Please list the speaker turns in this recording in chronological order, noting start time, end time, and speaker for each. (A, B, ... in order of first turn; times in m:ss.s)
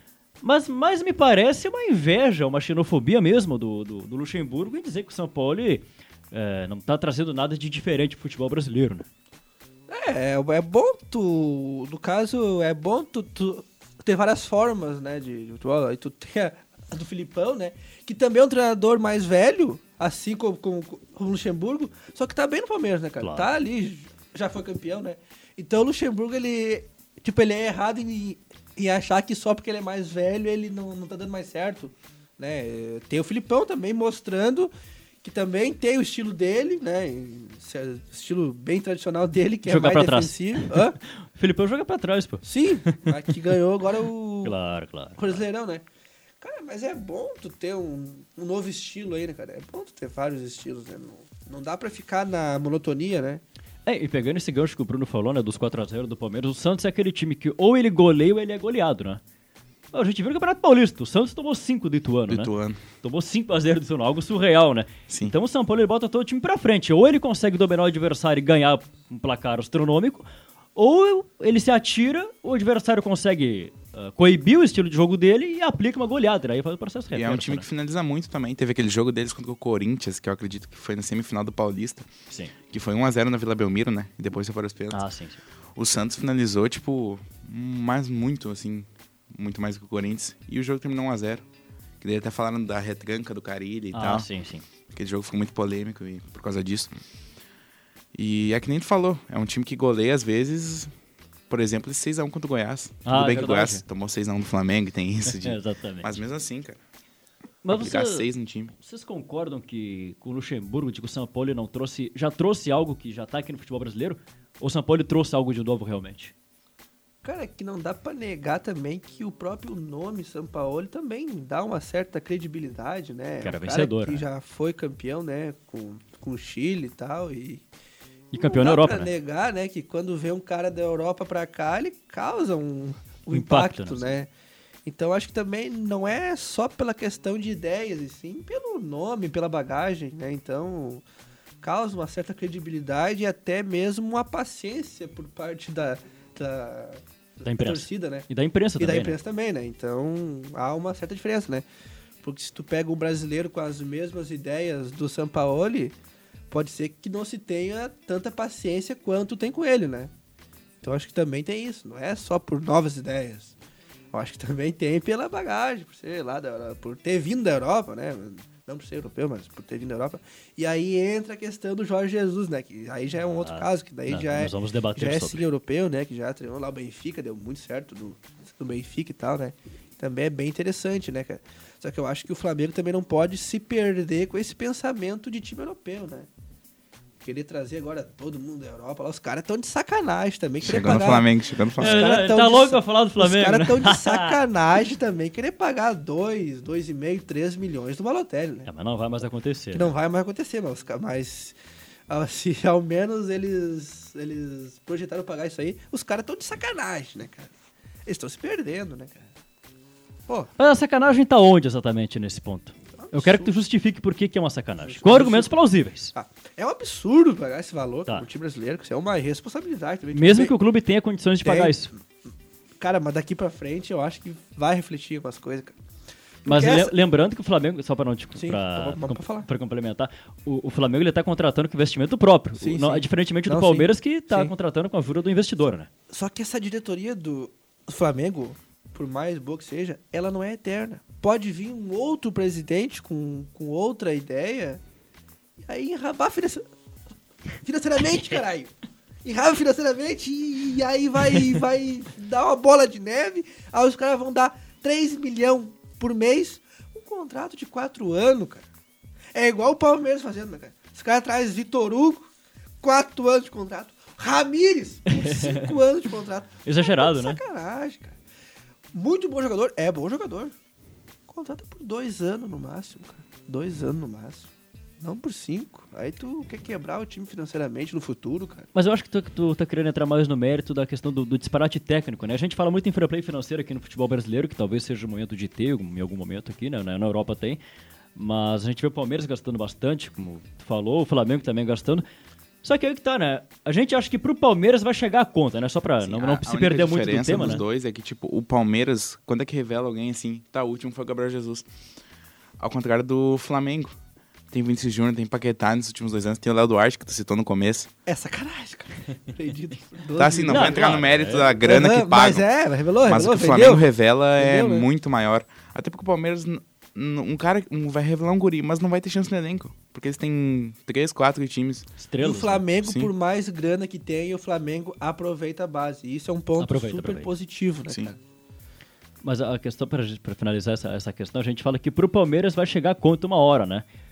0:00.4-0:09.0 A
0:09.9-0:34.7 B
0:23.2-0:23.5 A
0:35.2-0:41.0 B
0:39.6-0:43.1 A
0:42.4-0:44.5 B
0:44.4-0:45.4 A
0:45.2-0:45.8 B
0:46.4-0:53.4 B
0:53.8-0:59.2 A
0:59.9-1:17.6 A
1:02.3-1:02.8 C
1:17.1-1:22.1 C
1:22.7-1:25.0 C
1:24.9-1:25.4 A
1:25.8-1:31.4 C
1:32.0-1:34.3 C
1:33.9-1:34.6 A
1:34.9-1:36.9 C
1:38.1-1:40.9 C
1:41.5-1:46.8 C
1:43.0-1:43.8 A
1:45.2-1:46.2 A
1:47.6-1:56.3 A
1:47.7-1:48.7 C
1:57.2-2:07.6 B
2:03.4-2:04.2 A
2:08.3-2:09.1 A
2:08.3-2:14.3 B
2:13.3-2:14.2 A
2:14.8-2:21.0 B
2:21.6-2:28.2 B
2:27.4-2:29.2 A
2:28.8-2:31.6 B
2:32.2-2:35.9 B
2:36.5-2:40.1 B
2:40.8-2:43.5 B
2:44.1-3:06.3 B
2:53.4-2:55.4 A
3:07.2-3:18.7 B
3:10.6-3:12.1 C
3:11.8-3:14.4 A
3:18.6-3:19.9 A
3:19.7-3:21.6 B
3:22.1-3:27.5 B
3:28.0-3:29.3 B
3:30.6-3:36.1 A
3:33.0-3:33.5 B
3:34.8-3:35.6 B
3:36.1-3:40.5 B
3:40.1-3:41.9 A
3:41.4-3:41.8 B
3:42.8-3:45.8 B
3:46.4-3:46.9 B
3:46.4-3:55.9 A
3:48.4-3:49.5 B
3:52.6-3:54.5 B
3:56.1-4:04.8 B
4:05.6-4:06.6 B
4:07.6-4:08.7 B
4:09.2-4:18.6 B
4:19.3-4:22.3 B
4:22.8-4:28.2 B
4:25.1-4:25.7 A
4:26.6-4:27.4 A
4:28.9-4:30.5 B
4:31.3-4:34.5 B
4:35.0-4:38.7 B
4:38.7-4:47.6 A
4:48.2-4:52.0 A
4:52.6-4:57.6 A
4:56.0-5:01.7 C
5:02.6-5:03.9 C
5:04.5-5:07.9 C
5:08.0-5:14.9 B
5:10.2-5:12.5 C
5:10.5-5:11.6 A
5:13.0-5:21.9 C
5:22.0-5:22.6 A
5:22.2-5:28.2 B
5:22.8-5:23.1 C
5:26.6-5:27.3 A
5:29.2-5:33.8 A